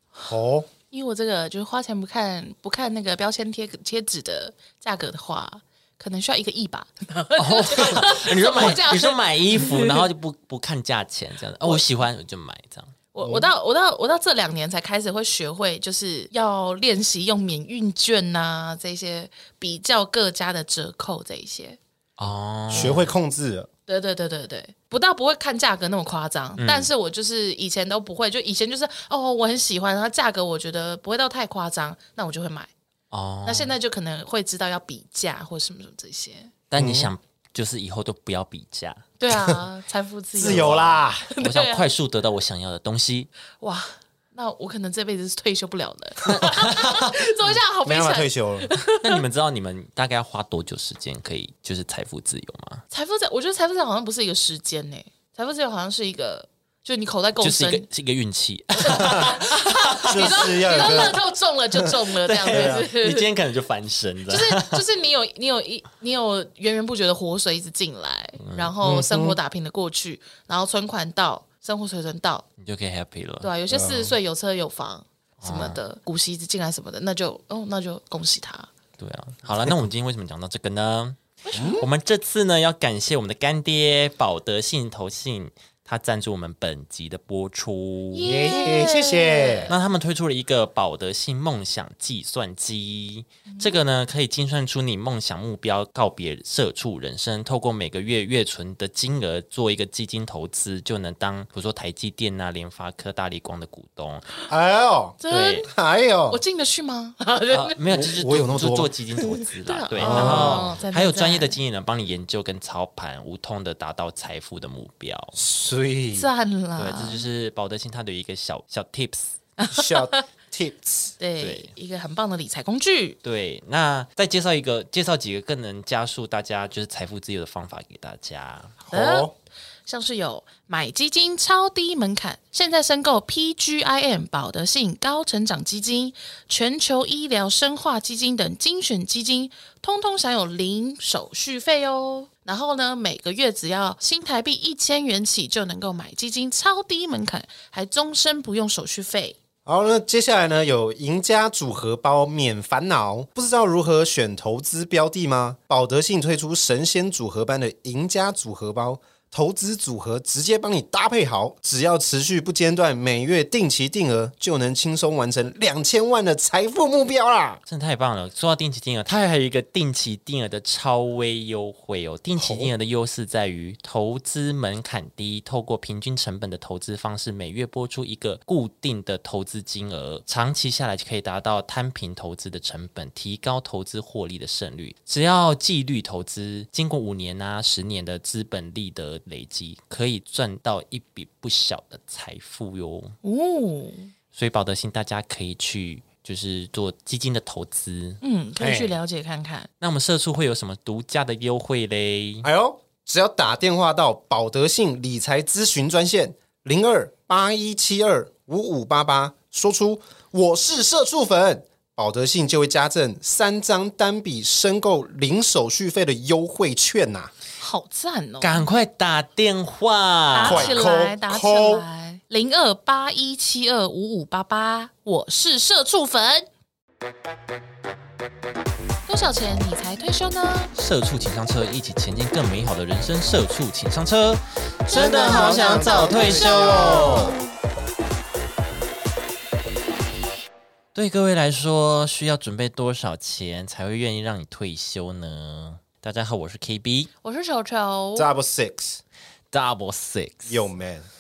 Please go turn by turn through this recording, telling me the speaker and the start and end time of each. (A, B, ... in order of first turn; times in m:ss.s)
0:00.3-0:00.7 A
0:00.9-0:10.0 B
0:07.4-0:12.9 C
0:13.1-0:21.8 B
0:13.2-0:13.5 A
0:22.2-0:23.1 C
0:22.7-0:23.7 A
0:23.9-0:32.7 B
0:26.6-0:26.9 C
0:33.1-0:33.7 C
0:33.4-0:36.5 B
0:36.7-0:39.1 C
0:36.8-0:37.1 A
0:39.2-0:41.9 B
0:39.3-0:39.6 A
0:40.4-0:41.3 A
0:40.4-0:43.3 C
0:43.6-0:49.2 B
0:46.4-0:47.1 C
0:47.8-0:48.7 A
0:49.0-0:52.8 C
0:52.9-0:57.9 B
0:57.4-1:01.2 C
0:58.8-1:03.3 B
1:00.0-1:01.2 A
1:02.2-1:04.8 C
1:02.4-1:02.8 A
1:04.3-1:12.4 B
1:08.4-1:08.7 C
1:08.8-1:09.4 A
1:12.6-1:13.5 C
1:13.4-1:18.7 B
1:13.7-1:14.2 A
1:15.4-1:15.8 C
1:19.0-1:28.6 C
1:21.5-1:21.8 B
1:21.5-1:21.9 A
1:28.1-1:29.8 B
1:28.2-1:29.8 A
1:29.7-1:44.3 C
1:44.5-1:46.4 A
1:45.2-1:45.7 B
1:45.3-1:45.6 C
1:46.3-1:47.8 B
1:47.5-1:55.4 C
1:47.9-1:48.9 A
1:49.3-1:51.6 B
1:50.0-1:50.8 A
1:55.3-1:56.3 A
1:56.2-1:57.2 B
1:56.8-1:59.4 C
1:59.6-2:00.2 B
1:59.7-2:01.2 A
2:01.2-2:03.2 B
2:01.4-2:01.7 C
2:03.2-2:08.8 C
2:08.9-2:09.3 B
2:08.9-2:09.3 A
2:09.9-2:29.4 B
2:29.7-2:47.6 A
2:47.7-3:13.2 C
2:52.4-2:52.7 A
3:13.2-3:14.1 B
3:14.3-3:18.2 C
3:18.2-3:19.7 B
3:18.6-3:19.0 A
3:19.8-3:22.5 C
3:22.4-3:37.3 A
3:37.6-3:38.7 B
3:38.4-3:40.8 C
3:40.3-3:46.5 B
3:40.4-3:41.9 A
3:49.1-3:50.7 B
3:50.7-3:57.4 C
3:54.9-3:57.4 B
3:54.9-3:57.3 A
4:00.9-4:07.1 C
4:07.2-4:08.3 B
4:08.2-4:09.0 A
4:09.5-4:10.6 C
4:10.4-4:11.1 A